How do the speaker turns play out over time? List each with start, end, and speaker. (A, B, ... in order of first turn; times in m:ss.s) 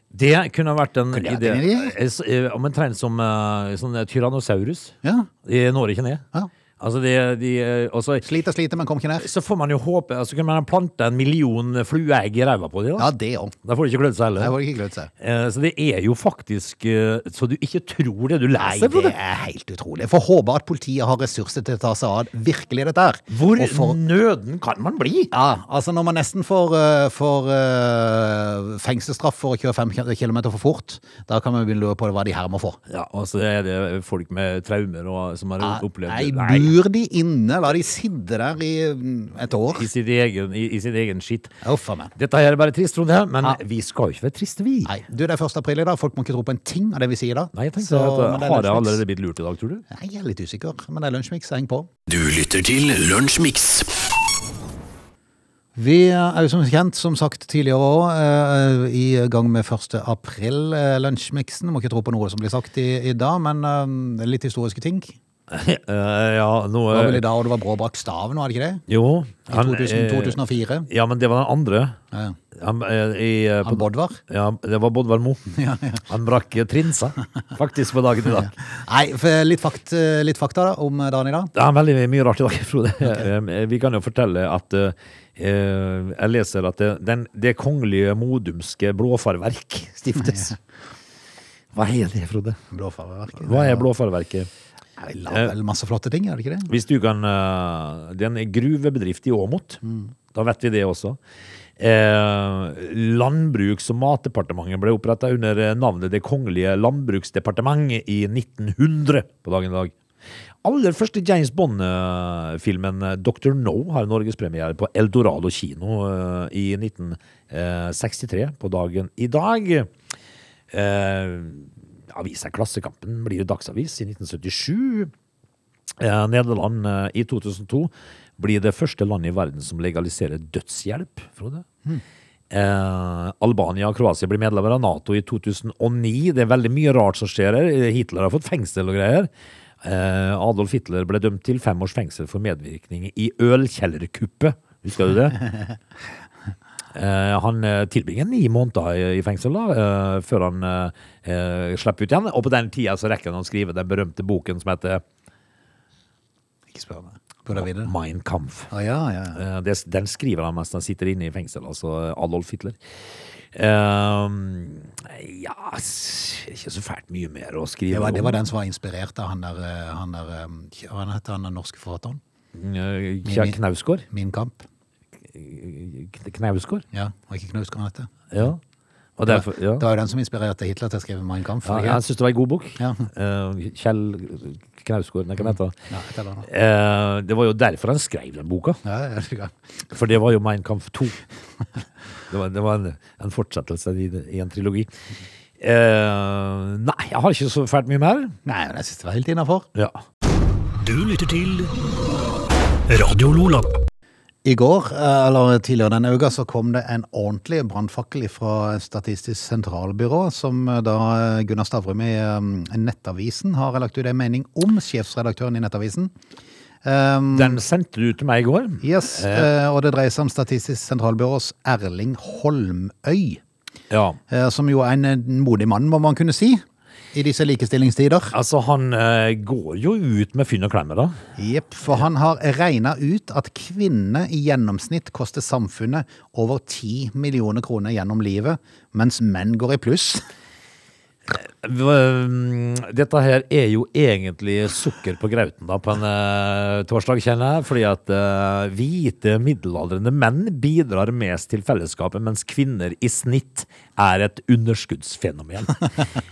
0:00.1-0:06.2 A
0:01.1-0:01.9 B
0:05.0-0:05.3 B
0:06.8-0:08.2 A
0:08.2-0:09.3 B
0:09.2-0:13.1 A
0:13.0-0:13.5 B
0:13.6-0:14.5 A
0:14.4-0:15.1 B
0:15.2-0:19.1 A
0:18.6-0:24.0 B
0:23.3-0:25.3 A
0:25.3-0:32.8 B
0:32.9-0:36.8 A
0:35.6-0:39.9 B
0:39.7-0:41.6 A
0:41.6-0:42.1 B
0:42.2-0:44.9 A
0:44.8-0:49.0 B
0:47.5-0:49.8 A
0:49.9-0:51.9 B
0:52.1-0:53.9 C
0:55.8-1:05.2 B
1:05.5-1:07.2 A
1:06.9-1:08.8 B
1:08.9-1:12.0 A
1:09.5-1:10.9 B
1:12.1-1:12.4 B
1:12.5-1:15.4 A
1:13.6-1:14.2 B
1:15.5-1:16.0 B
1:16.0-1:18.5 A
1:18.4-1:21.5 B
1:21.5-1:30.6 A
1:30.2-1:30.5 B
1:31.7-1:32.6 A
1:32.7-1:33.9 B
1:33.4-1:34.5 A
1:35.0-1:36.7 B
1:36.7-1:39.8 A
1:40.3-1:41.2 A
1:41.8-1:49.9 A
1:50.6-1:59.9 A
2:00.7-2:05.1 A
2:06.0-2:11.7 A
2:12.5-2:19.3 A
2:19.8-2:25.4 A
2:26.9-2:35.0 A
2:36.7-2:37.9 B
2:37.5-2:38.7 A
2:38.7-2:39.4 B
2:39.3-2:42.8 A
2:43.5-2:48.4 A
2:47.9-2:52.2 B
2:52.5-2:54.0 A
2:53.2-2:53.6 B
2:54.1-2:54.6 B
2:55.3-2:56.8 A
2:56.9-2:58.1 B
2:58.3-2:58.6 A
2:59.2-2:59.8 A
2:59.2-3:02.0 B
3:01.6-3:05.8 A
3:02.8-3:03.1 B
3:05.9-3:06.5 B
3:06.4-3:08.8 A
3:08.8-3:09.5 B
3:09.9-3:11.2 A
3:12.3-3:14.9 A
3:15.6-3:18.4 A
3:18.4-3:19.7 B
3:19.7-3:20.0 A
3:20.8-3:21.7 C
3:22.9-3:23.8 C
3:24.4-3:36.1 B
3:36.8-3:37.6 B
3:37.3-3:39.5 A
3:38.8-3:43.4 B
3:43.9-3:44.2 A
3:44.3-3:46.6 B
3:47.1-3:48.3 B
3:48.3-3:51.1 A
3:51.4-4:00.2 B
4:01.3-4:15.9 A